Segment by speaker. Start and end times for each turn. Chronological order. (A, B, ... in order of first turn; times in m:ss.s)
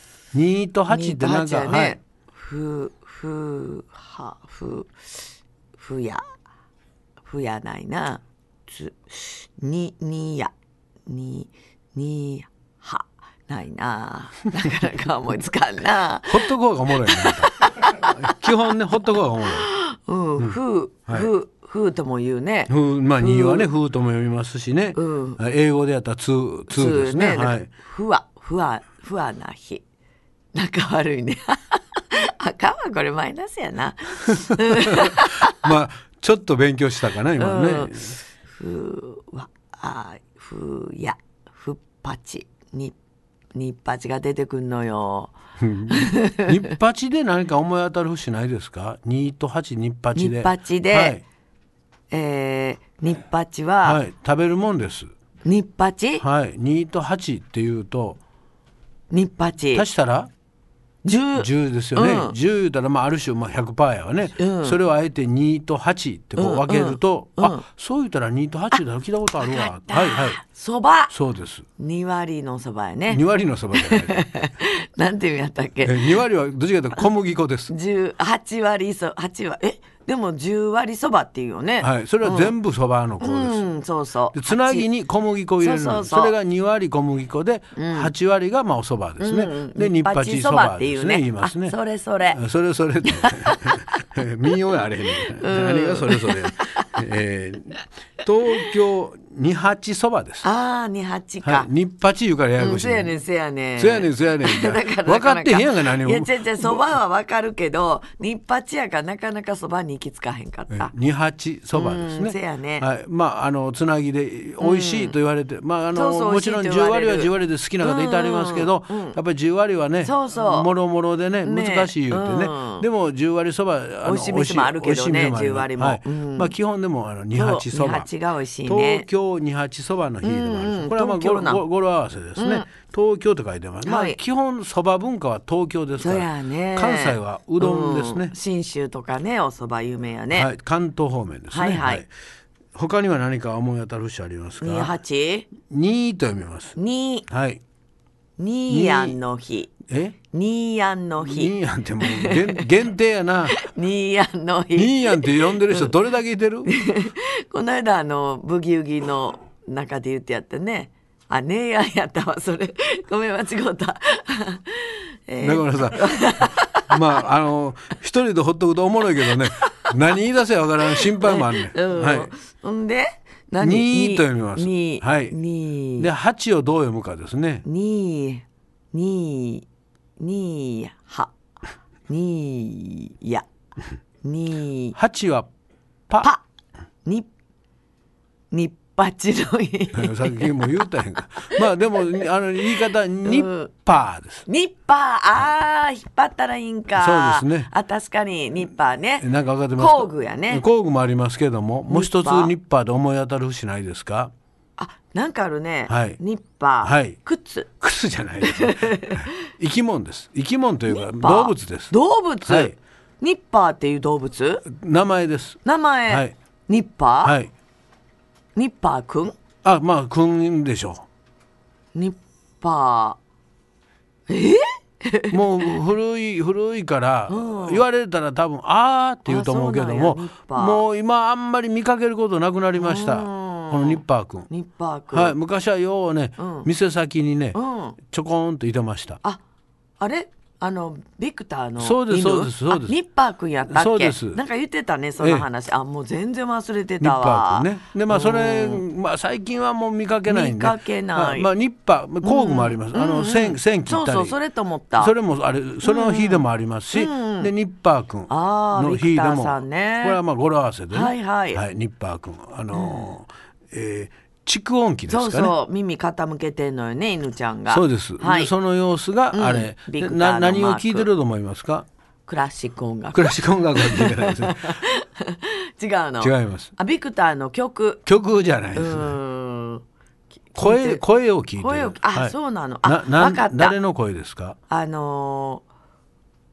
0:00.3-0:02.0 A
0:00.9-0:06.2 B
0:07.2-0:10.5 B
0:11.1-0:18.3 B
0:16.3-0:19.7 A
0:19.6-0:23.7 B
0:20.4-0:21.3 A
0:22.7-0:27.7 A
0:25.0-0:25.4 B
0:26.7-0:29.8 B
0:30.5-0:35.7 B
0:34.3-0:38.2 A
0:37.4-0:43.0 B
0:43.5-0:45.3 B
0:45.6-0:51.2 A
0:45.9-0:46.7 B
0:50.2-0:51.2 B
0:52.1-0:54.0 B
0:53.8-0:55.1 A
0:55.4-0:56.3 B
0:56.2-0:58.2 A
0:59.1-0:59.9 B
0:59.7-1:00.3 A
1:01.0-1:02.4 B
1:01.3-1:10.4 A
1:04.4-1:04.8 B
1:06.4-1:07.6 B
1:09.4-1:11.1 B
1:11.1-1:11.6 A
1:11.8-1:16.2 B
1:13.1-1:14.3 A
1:15.8-1:17.7 A
1:17.7-1:22.5 B
1:21.8-1:23.7 A
1:23.2-1:24.9 B
1:24.3-1:31.8 A
1:25.6-1:26.4 B
1:27.8-1:28.1 B
1:29.2-1:32.4 B
1:32.3-1:40.5 A
1:33.0-1:33.7 B
1:35.4-1:37.0 B
1:40.4-1:41.7 B
1:41.4-1:43.1 A
1:42.6-1:50.9 B
1:43.8-1:46.9 A
1:50.7-2:08.1 A
1:51.7-1:52.9 B
1:54.6-1:55.2 B
1:55.9-1:59.2 B
2:00.0-2:00.7 B
2:01.4-2:02.9 B
2:04.0-2:06.5 B
2:07.3-2:09.1 B
2:08.6-2:18.4 A
2:10.2-2:11.6 B
2:12.4-2:12.7 B
2:13.8-2:14.2 B
2:16.0-2:20.5 B
2:20.3-2:22.1 A
2:21.5-2:22.0 B
2:22.8-2:25.0 A
2:24.6-2:25.5 B
2:25.6-2:27.6 A
2:26.8-2:27.3 B
2:28.4-2:29.7 B
2:28.7-2:29.2 A
2:29.9-2:30.2 A
2:30.3-2:32.7 B
2:31.2-2:33.6 A
2:33.5-2:35.9 B
2:34.8-2:36.7 A
2:36.6-2:47.2 B
2:45.4-2:52.3 A
2:49.4-2:49.9 B
2:50.8-2:56.1 B
2:53.6-2:55.4 A
2:56.0-2:57.6 A
2:57.6-2:59.7 B
3:00.2-3:01.3 B
3:02.1-3:03.5 B
3:04.2-3:05.0 B
3:05.0-3:05.5 A
3:07.0-3:07.3 B
3:08.5-3:11.7 B
3:09.9-3:14.5 A
3:13.2-3:13.7 B
3:14.5-3:20.6 B
3:16.9-3:17.7 A
3:19.2-3:24.3 A
3:21.9-3:22.5 B
3:24.8-3:27.7 B
3:25.9-3:26.2 A
3:26.8-3:27.2 A
3:27.8-3:32.0 A
3:28.4-3:29.3 B
3:30.9-3:34.6 B
3:32.5-3:32.8 A
3:34.7-3:36.3 A
3:35.6-3:37.4 B
3:37.2-3:37.5 A
3:38.6-3:39.4 B
3:39.6-3:41.0 A
3:41.9-3:43.2 B
3:44.3-3:45.4 B
3:45.3-3:54.5 A
3:47.3-3:47.8 B
3:49.3-3:50.8 B
3:52.8-3:55.4 B
3:55.1-3:59.2 A
3:56.4-3:56.7 B
3:57.5-3:58.0 B
4:00.0-4:08.8 B
4:01.8-4:03.0 A
4:03.7-4:04.4 A
4:05.2-4:05.5 A
4:07.0-4:14.4 A
4:10.3-4:11.5 B
4:12.2-4:15.1 B
4:15.0-4:25.5 A
4:15.8-4:17.5 B
4:18.3-4:20.2 B
4:20.9-4:21.6 B
4:22.7-4:23.1 B
4:25.1-4:28.5 B
4:27.7-4:31.9 A
4:29.3-4:31.1 B
4:32.3-4:38.0 B
4:33.1-4:34.8 A
4:36.2-4:36.7 A
4:38.1-4:39.2 A
4:38.7-4:39.8 B
4:40.5-4:41.0 B
4:40.6-4:44.6 A
4:41.6-4:43.8 B
4:44.7-4:45.6 B